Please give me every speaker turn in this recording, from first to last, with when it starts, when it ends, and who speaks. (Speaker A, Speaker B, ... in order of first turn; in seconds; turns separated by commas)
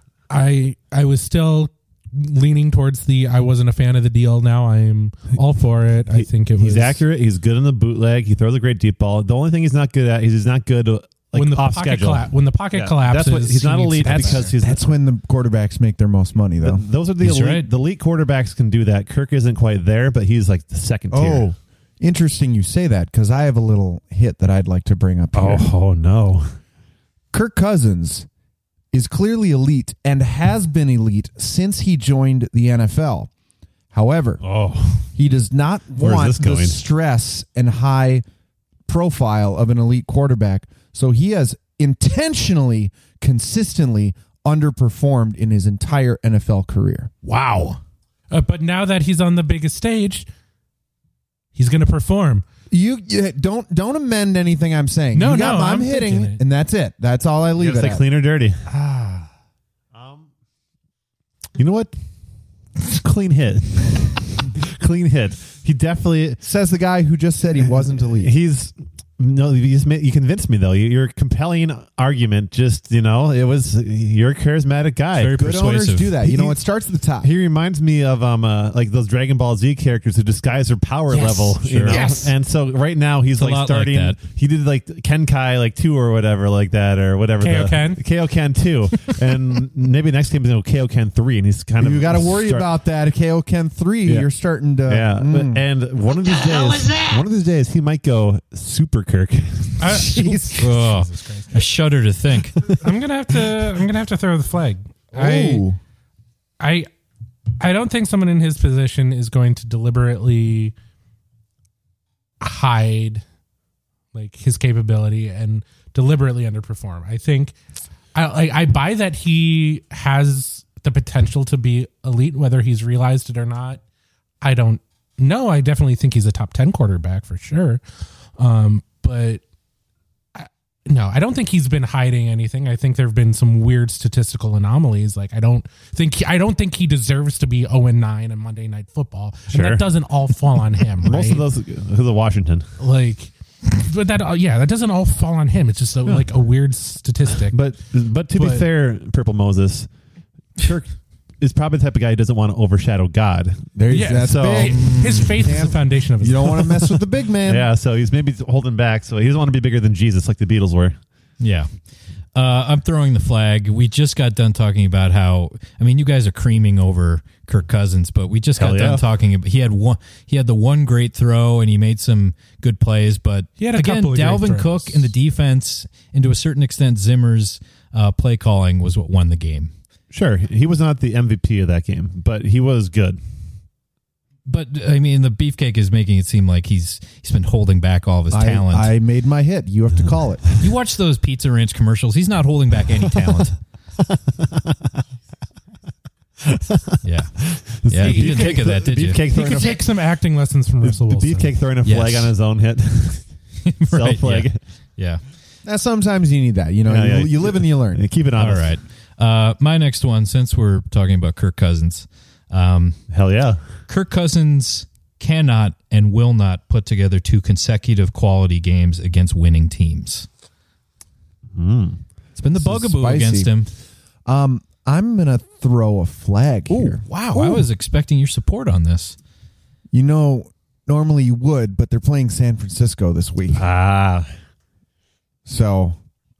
Speaker A: 0.3-7.0, Speaker B: 6.1-14.8, Speaker A: 11.3-14.5, Speaker C: 14.0-16.8, Speaker B: 16.6-21.5, Speaker D: 17.2-17.7, Speaker C: 21.1-25.7, Speaker B: 25.3-26.5, Speaker C: 27.3-28.3, Speaker C: 28.9-33.3, Speaker C: 33.9-34.4, Speaker B: 34.4-35.1, Speaker C: 35.1-38.2, Speaker B: 36.0-36.8, Speaker C: 38.9-47.1, Speaker A: 47.2-47.8, Speaker A: 48.3-50.2, Speaker A: 51.5-52.4, Speaker C: 52.7-58.0, Speaker A: 55.1-56.4, Speaker B: 57.6-58.6, Speaker C: 58.8-59.2, Speaker B: 59.9-60.2, Speaker B: 61.6-61.9, Speaker B: 62.8-66.4, Speaker C: 66.4-68.3, Speaker B: 67.7-75.4, Speaker D: 75.1-76.2, Speaker C: 75.3-77.3, Speaker B: 76.2-76.6, Speaker B: 77.2-92.7, Speaker A: 81.1-82.3, Speaker D: 83.3-84.2, Speaker A: 87.4-88.0, Speaker C: 91.8-95.6, Speaker B: 94.9-100.0, Speaker A: 99.8-101.5, Speaker C: 99.9-100.7, Speaker D: 100.6-102.6, Speaker A: 102.7-105.7, Speaker C: 105.1-105.8, Speaker A: 106.6-106.9, Speaker A: 107.6-110.7, Speaker A: 112.4-113.2, Speaker A: 114.1-117.5, Speaker A: 118.1-123.8, Speaker A: 124.4-127.8, Speaker A: 128.4-129.4, Speaker A: 130.3-141.4, Speaker B: 139.5-139.8, Speaker B: 141.0-142.7, Speaker A: 142.8-147.6, Speaker B: 147.5-149.9, Speaker A: 148.3-148.6, Speaker B: 150.6-154.9, Speaker C: 153.7-157.7, Speaker A: 153.9-156.9, Speaker D: 154.8-155.2, Speaker B: 157.4-161.0, Speaker D: 161.4-161.7, Speaker D: 162.3-179.7, Speaker B: 168.6-169.0, Speaker A: 173.6-175.1, Speaker B: 180.1-183.2, Speaker D: 184.4-188.9, Speaker C: 188.3-190.4, Speaker D: 190.6-193.6, Speaker B: 194.1-194.8, Speaker B: 196.4-197.0, Speaker D: 197.0-197.3, Speaker B: 197.6-199.8, Speaker D: 197.8-199.2, Speaker A: 198.0-198.6, Speaker A: 199.3-201.5, Speaker B: 200.8-203.3, Speaker D: 201.8-202.3, Speaker D: 203.6-205.2, Speaker B: 203.9-204.6, Speaker C: 205.6-208.0, Speaker B: 206.8-208.7, Speaker D: 208.4-213.0, Speaker B: 213.1-213.6, Speaker D: 213.9-220.3, Speaker B: 221.5-222.0, Speaker D: 222.3-223.7, Speaker C: 222.5-223.5, Speaker C: 224.2-227.0, Speaker D: 226.7-229.2, Speaker A: 227.3-227.5, Speaker C: 229.9-233.6, Speaker B: 233.5-234.3, Speaker C: 235.4-235.9